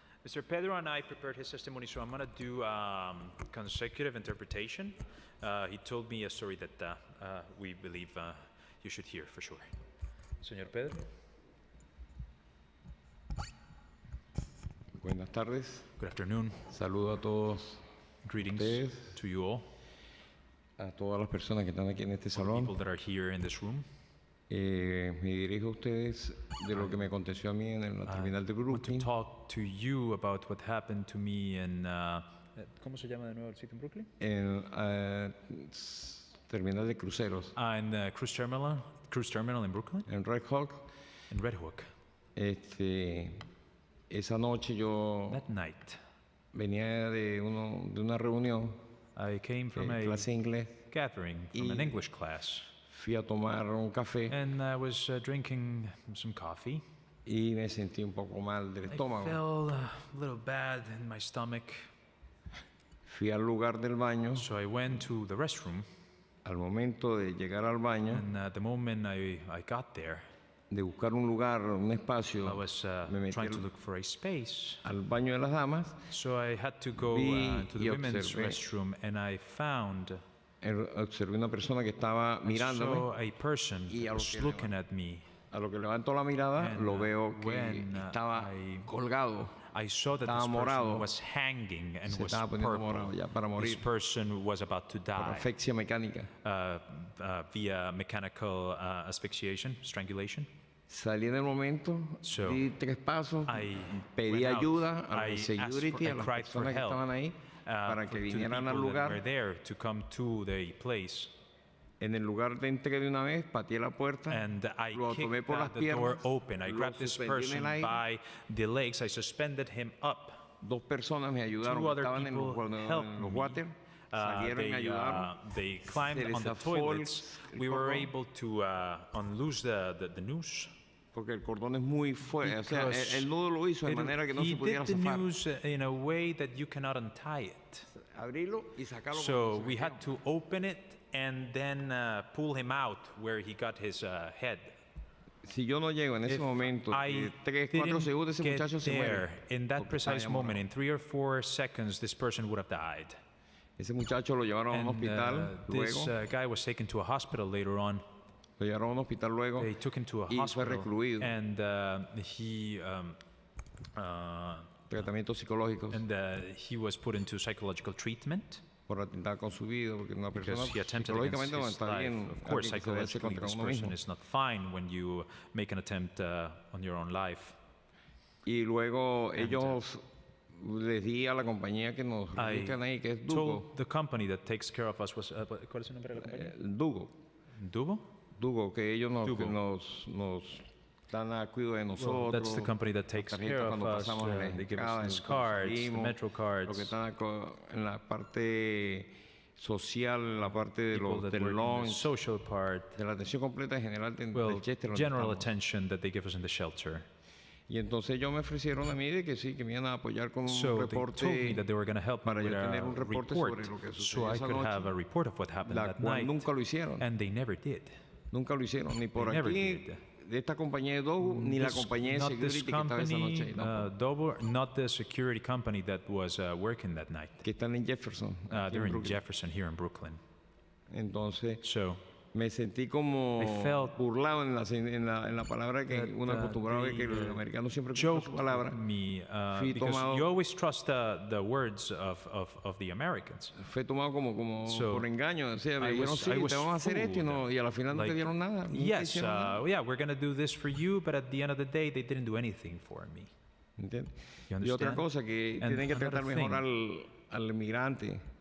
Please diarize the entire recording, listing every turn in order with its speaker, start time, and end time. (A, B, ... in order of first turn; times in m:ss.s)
0:00.2-0:09.7 A
0:10.4-0:11.1 A
0:15.0-0:15.9 B
0:16.0-0:16.7 A
0:16.7-0:17.8 B
0:18.2-0:19.7 A
0:18.5-0:19.2 B
0:20.8-0:22.7 B
0:22.3-0:23.8 A
0:24.5-0:29.1 B
0:26.7-0:27.0 A
0:28.1-0:34.1 A
0:34.2-0:37.5 B
0:37.6-0:40.1 A
0:40.1-0:40.9 B
0:41.3-0:41.9 A
0:42.4-0:43.4 B
0:44.1-0:45.4 B
0:45.3-0:46.0 A
0:46.5-0:48.8 B
0:49.2-0:50.3 A
0:49.7-0:50.8 B
0:50.9-0:52.7 A
0:51.5-0:52.0 B
0:52.9-0:54.4 B
0:54.3-0:56.8 A
0:57.3-0:59.4 B
0:58.9-1:01.9 A
1:03.1-1:04.5 B
1:04.4-1:05.8 A
1:06.4-1:08.3 B
1:08.1-1:10.2 A
1:10.7-1:13.7 B
1:12.4-1:14.8 A
1:14.8-1:16.1 B
1:16.1-1:20.2 A
1:17.0-1:18.6 B
1:20.6-1:23.1 B
1:22.4-1:25.3 A
1:23.9-1:24.7 B
1:25.5-1:29.6 B
1:26.6-1:28.9 A
1:29.7-1:35.5 A
1:30.2-1:31.1 B
1:32.1-1:33.9 B
1:35.2-1:36.3 B
1:36.4-1:40.5 A
1:40.9-1:49.2 B
1:42.2-1:42.6 A
1:43.5-1:47.0 A
1:47.6-1:51.3 A
1:52.0-1:58.0 B
1:54.3-2:00.5 A
2:00.6-2:05.4 B
2:01.6-2:10.7 A
2:05.9-2:08.1 B
2:11.1-2:15.3 B
2:12.4-2:13.3 A
2:13.8-2:17.9 A
2:17.9-2:20.1 B
2:19.1-2:24.8 A
2:25.4-2:30.6 B
2:26.3-2:33.2 A
2:33.8-2:36.2 B
2:34.7-2:38.0 A
2:38.6-2:39.7 B
2:39.6-2:43.2 A
2:40.3-2:41.3 B
2:44.0-2:44.9 A
2:44.9-2:46.0 B
2:45.9-2:48.6 A
2:48.9-2:54.0 B
2:50.4-2:57.6 A
2:58.4-3:03.7 B
2:59.4-2:59.8 A
3:02.4-3:06.6 A
3:06.2-3:07.1 B
3:07.6-3:08.1 A
3:08.4-3:22.1 B
3:09.2-3:09.6 A
3:12.0-3:17.0 A
3:20.9-3:23.0 A
3:22.9-3:25.5 B
3:24.3-3:27.1 A
3:27.7-3:31.6 B
3:30.5-3:37.9 A
3:32.2-3:34.9 B
3:35.6-3:37.0 B
3:38.3-3:43.9 B
3:39.2-3:40.0 A
3:41.2-3:47.4 A
3:47.4-3:49.2 B
3:48.5-3:50.2 A
3:50.9-3:51.6 B
3:51.6-3:52.0 A
3:52.3-3:58.8 B
3:53.4-3:54.0 A
3:55.9-3:57.4 A
3:57.9-4:03.6 A
3:59.5-4:00.3 B
4:03.6-4:09.6 B
4:04.6-4:05.1 A
4:05.8-4:13.3 A
4:13.8-4:18.2 B
4:14.5-4:15.0 A
4:15.6-4:16.6 A